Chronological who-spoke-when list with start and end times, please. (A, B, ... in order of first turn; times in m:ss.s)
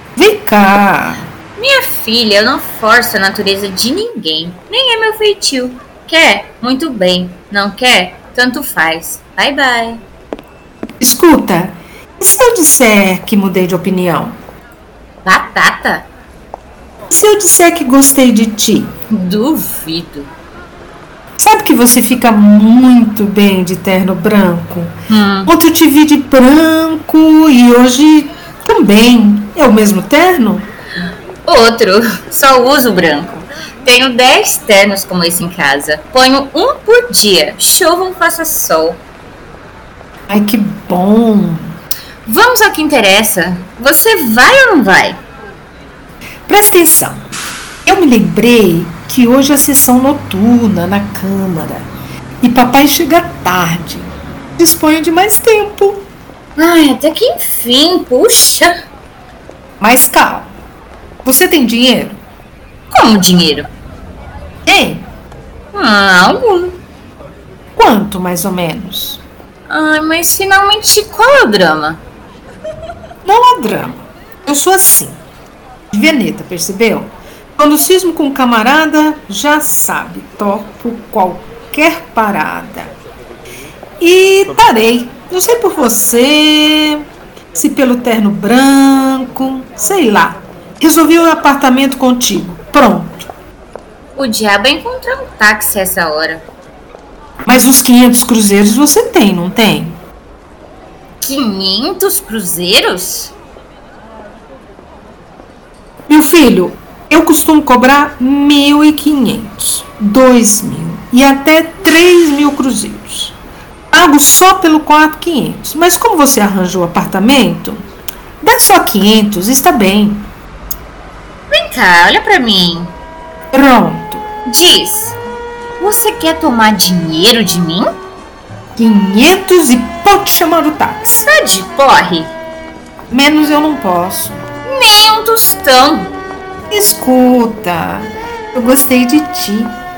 0:00.2-0:01.3 A
0:01.6-0:10.0 B
0:11.0-0:14.4 A
0:15.2-0:16.1 B
0:17.1-0:18.9 A
0:19.1-0:20.3 B
0:21.4-0:24.9 A
0:25.1-0:25.5 B
0:25.4-0:30.7 A
0:31.4-0:39.0 B
0:40.3-0:41.8 A
0:42.2-0:45.2 B
0:46.5-0:47.2 A
0:47.8-0:51.9 A
0:52.4-0:56.0 A
0:56.6-0:58.7 B
0:59.8-1:00.5 A
1:01.2-1:02.2 A
1:02.9-1:03.7 B
1:04.6-1:05.1 A
1:05.7-1:06.8 B
1:07.8-1:09.2 A
1:09.7-1:12.0 B
1:13.2-1:15.2 A
1:15.9-1:22.9 A
1:24.0-1:33.2 A
1:34.2-1:36.4 B
1:37.4-1:40.0 A
1:41.2-1:43.3 B
1:46.1-1:53.4 A
1:53.9-1:57.8 A
1:58.4-2:00.3 A
2:01.5-2:02.9 B
2:03.5-2:04.3 A
2:04.4-2:05.2 B
2:05.8-2:07.9 B
2:08.8-2:11.3 A
2:11.2-2:12.3 B
2:13.1-2:14.4 A
2:14.6-2:16.1 B
2:16.7-2:19.8 A